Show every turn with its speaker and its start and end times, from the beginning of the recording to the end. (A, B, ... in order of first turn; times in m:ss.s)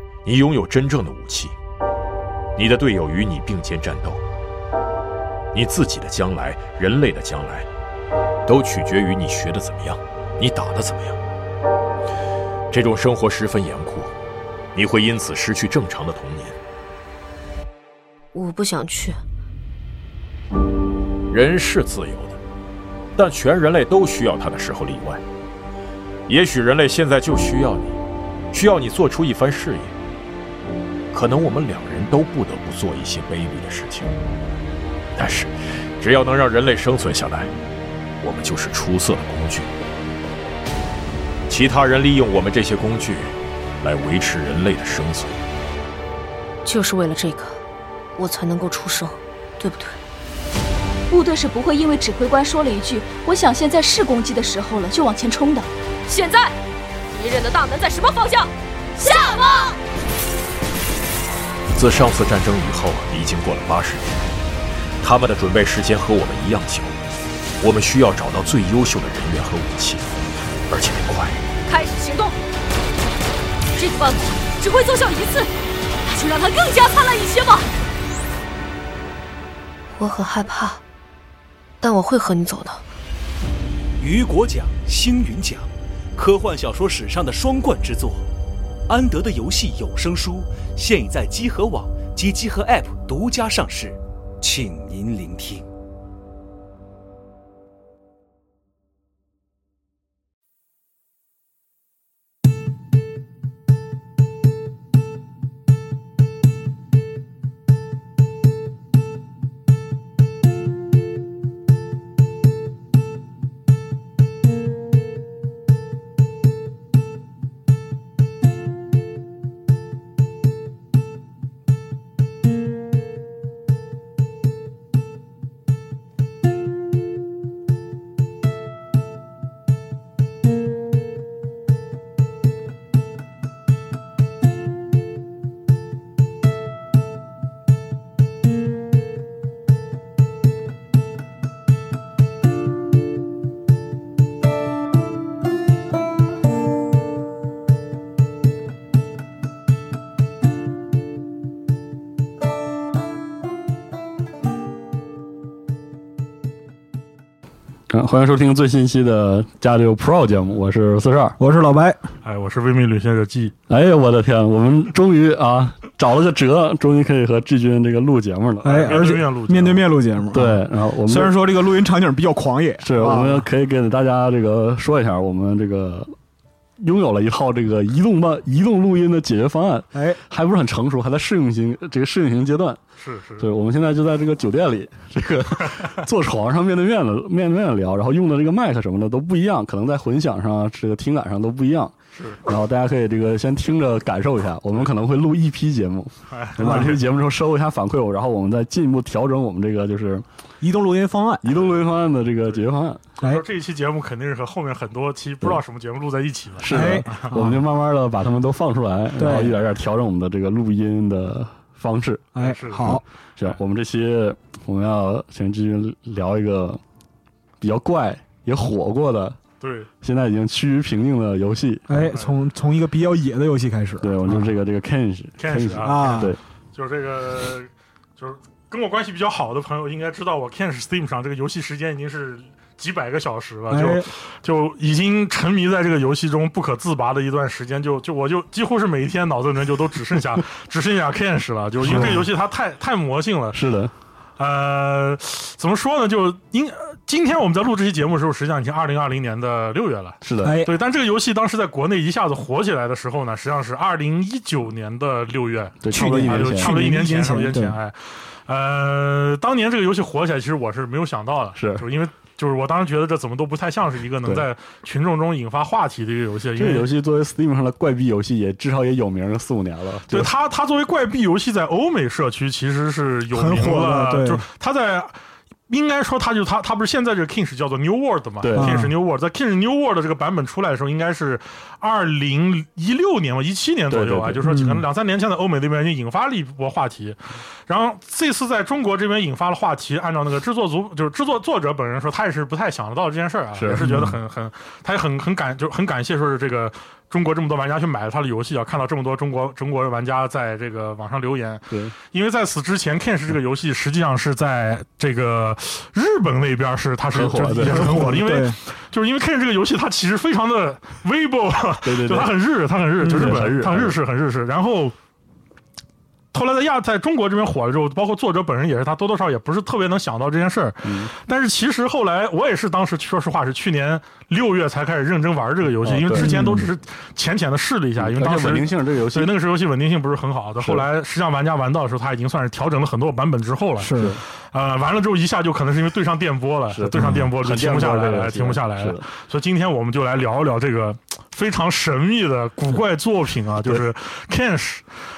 0:00.2-0:01.5 A
0:02.6-0:04.2 A
0:05.5-0:07.7 A
0:08.5-0:11.2 A
0:12.7-0:14.1 A
0:14.7-0:16.6 A
0:18.3-0:19.2 B
0:21.3-0:22.4 A
0:23.2-0:25.2 A
0:26.3-0:28.0 A
0:28.5-0:29.9 A
0:31.1-0:34.1 A
0:35.2-0:37.5 A
0:38.2-0:39.7 A
0:41.5-0:45.4 A
0:46.6-0:47.6 B
0:48.2-0:50.0 B
0:51.1-0:56.5 C
0:57.1-0:59.8 C
1:01.7-1:04.2 A
1:05.0-1:06.9 A
1:07.6-1:10.2 A
1:10.7-1:11.4 A
1:11.6-1:12.3 C
1:13.7-1:15.5 C
1:16.1-1:17.6 C
1:19.9-1:20.8 B
1:21.8-1:22.8 B
1:24.0-1:28.2 D
1:28.9-1:35.6 D
2:37.9-2:41.4 E
2:41.4-2:42.0 F
2:42.2-2:43.5 G
2:43.7-2:49.1 E
2:48.6-2:53.4 F
2:48.6-2:49.8 G
2:50.3-2:51.4 E
2:52.8-2:56.1 E
2:56.8-3:02.8 E
2:59.9-3:00.2 F
3:03.0-3:03.5 G
3:03.4-3:20.2 E
3:12.1-3:12.4 G
3:16.3-3:17.0 G
3:16.6-3:17.0 F
3:20.6-3:21.5 F
3:21.4-3:23.0 E
3:23.2-3:27.3 G
3:26.6-3:36.8 E
3:26.7-3:27.6 F
3:29.2-3:29.6 F
3:32.4-3:33.0 F
3:32.4-3:33.6 G
3:37.6-3:39.4 E
3:39.6-3:39.9 G
3:40.0-3:41.9 E
3:41.9-3:44.1 F
3:42.0-3:42.3 G
3:44.0-3:46.4 E
3:44.2-3:44.5 G
3:45.4-4:03.6 G
3:45.8-3:46.3 F
3:53.7-3:54.1 F
4:01.8-4:02.2 E
4:01.8-4:02.2 F
4:03.5-4:03.9 E
4:04.4-4:26.9 G
4:10.2-4:10.6 E
4:10.4-4:10.8 F
4:15.8-4:16.7 E
4:15.9-4:17.7 F
4:21.6-4:21.8 E
4:26.6-4:30.3 E
4:30.1-4:35.1 G
4:33.3-4:34.4 F
4:35.7-5:14.9 G
4:38.4-4:38.8 E
4:38.6-4:38.9 F
4:43.9-4:44.4 E
4:44.4-4:44.8 F
4:53.6-4:54.0 E
4:53.8-4:54.1 F
5:07.1-5:08.2 E
5:07.7-5:08.6 F
5:11.8-5:12.3 E
5:13.0-5:13.4 F
5:13.1-5:14.0 E
5:16.3-5:34.0 G
5:20.8-5:21.1 E
5:25.8-5:26.5 E
5:26.2-5:26.6 F
5:28.0-5:29.3 E
5:30.6-5:30.8 E
5:33.8-5:34.1 F
5:34.0-5:34.2 E
5:34.5-5:44.8 G
5:36.7-5:39.0 E
5:37.0-5:37.2 F
5:43.6-5:43.9 E